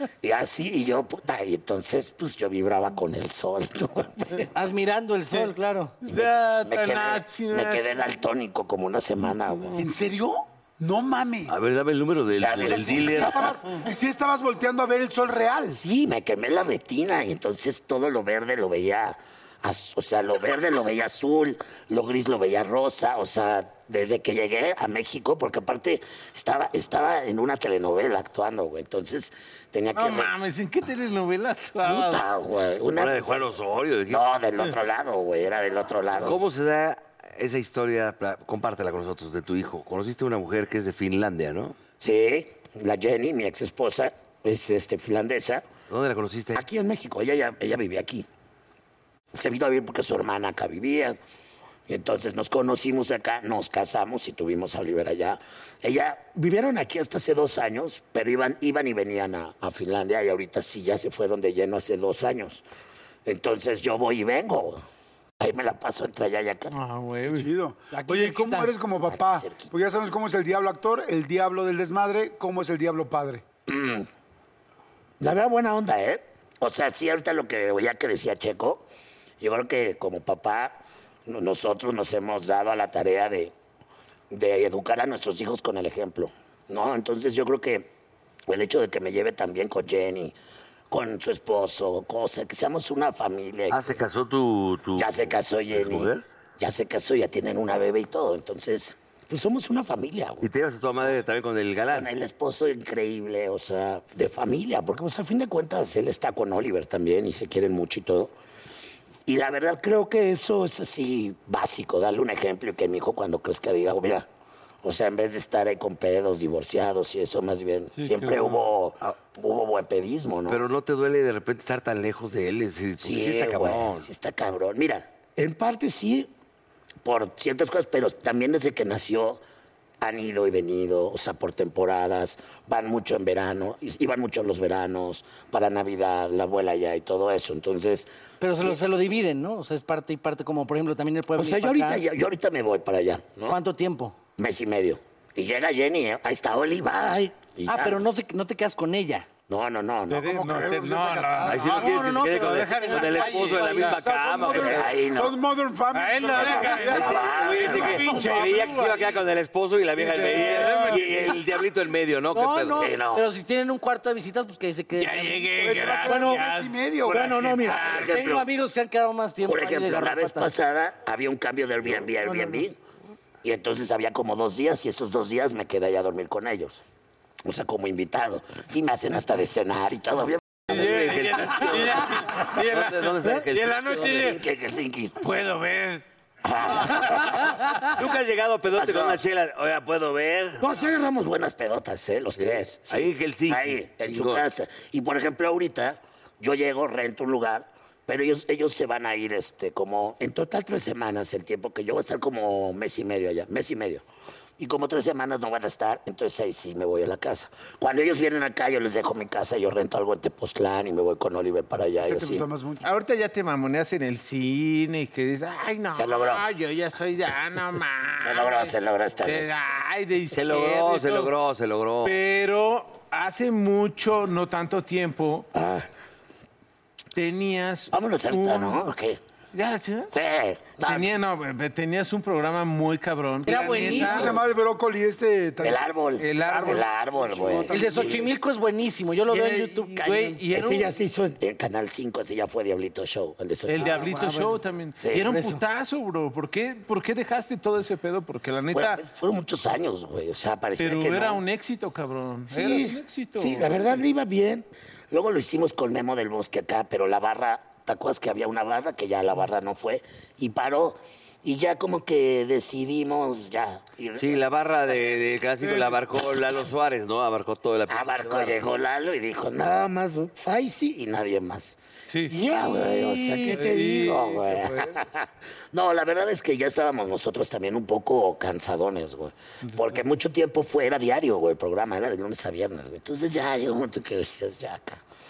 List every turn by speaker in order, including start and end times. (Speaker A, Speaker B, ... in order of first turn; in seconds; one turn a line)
Speaker A: 0.2-4.5
Speaker B: 4.5-6.0
Speaker C: 6.0-8.0
Speaker A: 6.6-9.8
Speaker D: 9.8-11.6
Speaker E: 11.5-13.5
Speaker A: 12.4-13.5
Speaker D: 12.6-15.8
Speaker A: 15.8-30.4
Speaker C: 29.9-32.2
Speaker A: 31.8-33.5
Speaker E: 32.9-34.2
Speaker A: 34.1-36.4
Speaker E: 36.2-41.8
Speaker A: 42.0-45.7
Speaker E: 45.9-46.6
Speaker A: 46.5-48.2
Speaker A: 49.3-51.2
Speaker A: 51.9-62.6
Speaker A: 63.2-64.8
Speaker A: 65.4-66.7
Speaker C: 66.7-67.5
Speaker D: 67.3-73.4
Speaker B: 67.9-68.7
Speaker A: 69.1-69.7
Speaker A: 73.7-74.1
Speaker A: 75.2-78.9
Speaker A: 79.4-83.5
Speaker A: 84.3-87.9
Speaker A: 88.5-90.3
Speaker A: 90.9-93.9
Speaker E: 93.7-96.2
Speaker A: 95.0-100.5
Speaker E: 100.4-102.1
Speaker A: 101.9-108.3
Speaker A: 109.2-114.2
Speaker A: 114.8-120.6
Speaker C: 117.9-118.7
Speaker E: 120.5-124.1
Speaker A: 123.0-126.3
Speaker A: 127.0-129.4
Speaker A: 130.0-138.8
Speaker B: 138.4-142.0
Speaker A: 141.4-143.6
Speaker B: 143.5-144.2
Speaker A: 144.4-148.0
Speaker B: 147.7-149.3
Speaker A: 149.5-150.4
Speaker C: 150.1-154.8
Speaker D: 150.3-151.6
Speaker E: 151.4-154.9
Speaker B: 151.7-153.9
Speaker D: 154.0-157.0
Speaker A: 154.7-155.4
Speaker C: 155.9-159.2
Speaker B: 156.4-156.7
Speaker A: 156.6-158.1
Speaker E: 156.9-162.9
Speaker C: 160.0-161.4
Speaker B: 162.3-166.1
Speaker A: 162.7-163.2
Speaker C: 164.9-166.8
Speaker D: 165.6-167.3
Speaker B: 167.1-170.5
Speaker A: 167.5-168.5
Speaker A: 169.4-172.8
Speaker B: 172.2-172.6
Speaker A: 173.4-176.8
Speaker A: 177.4-182.2
Speaker C: 180.7-184.4
Speaker E: 180.7-184.3
Speaker A: 184.0-185.2
Speaker C: 185.2-186.0
Speaker A: 186.4-187.7
Speaker C: 186.9-187.9
Speaker E: 187.9-190.9
Speaker A: 188.7-189.2
Speaker A: 190.6-204.0
Speaker E: 192.3-194.4
Speaker A: 204.6-212.5
Speaker D: 212.0-212.8
Speaker C: 212.8-221.3
Speaker A: 215.9-216.4
Speaker A: 218.2-219.5
Speaker E: 220.3-222.2
Speaker C: 222.0-225.5
Speaker A: 225.5-225.9
Speaker C: 227.1-228.9
Speaker A: 227.9-229.2
Speaker C: 229.5-230.1
Speaker A: 230.1-231.1
Speaker C: 230.8-234.4
Speaker B: 233.4-234.3
Speaker D: 233.9-235.9
Speaker A: 235.6-238.3
Speaker C: 236.2-238.1
Speaker D: 236.4-237.9
Speaker B: 237.7-240.4
Speaker C: 239.3-241.0
Speaker A: 240.5-244.1
Speaker C: 243.7-249.0
Speaker B: 243.7-244.6
Speaker A: 245.0-245.3
Speaker B: 245.2-245.6
Speaker A: 248.7-251.4
Speaker C: 250.8-254.1
Speaker A: 252.5-264.4
Speaker E: 264.1-268.6
Speaker C: 265.6-265.9
Speaker A: 267.9-285.0
Speaker C: 272.1-275.0
Speaker C: 279.7-280.0